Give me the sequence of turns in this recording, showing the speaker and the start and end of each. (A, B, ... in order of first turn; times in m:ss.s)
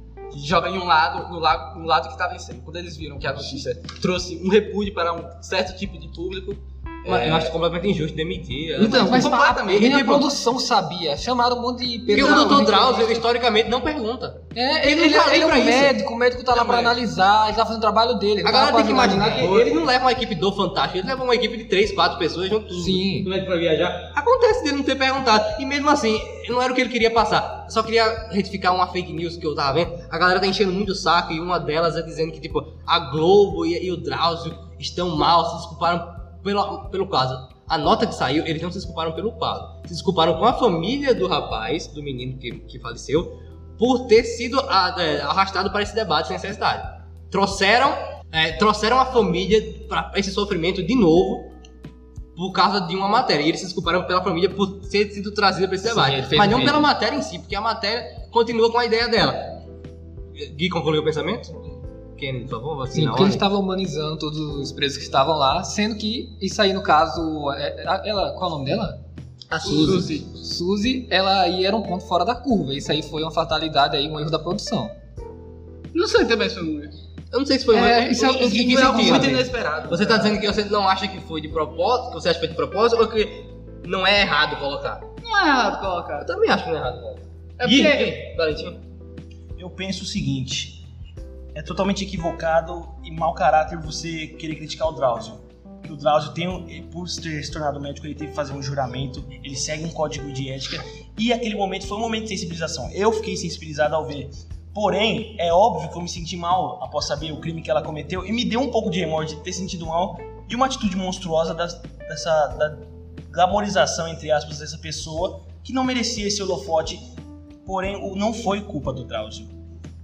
0:00.3-0:07.5 A
0:07.0-0:10.3 B
0:08.8-0:10.1 A
0:08.8-0:13.1 C
0:12.1-0:16.0 B
0:12.1-0:12.6 A
0:14.5-0:19.5 C
0:16.5-0:16.9 A
0:18.4-0:51.5 B
0:19.2-0:19.8 A
0:22.7-0:23.3 C
0:52.3-0:59.6 B
0:55.8-0:56.8 C
1:00.4-1:01.6 B
1:02.2-1:03.5 B
1:02.9-1:09.0 C
1:09.5-1:10.1 B
1:09.7-1:14.9 C
1:09.7-1:10.2 D
1:15.9-1:16.9 D
1:17.3-1:25.0 B
1:17.7-1:19.3 C
1:18.2-1:20.4 A
1:25.2-1:26.3 D
1:26.2-1:28.8 B
1:27.6-1:28.2 D
1:29.6-1:30.8 E
1:31.5-1:57.1 E
1:57.6-1:59.5 E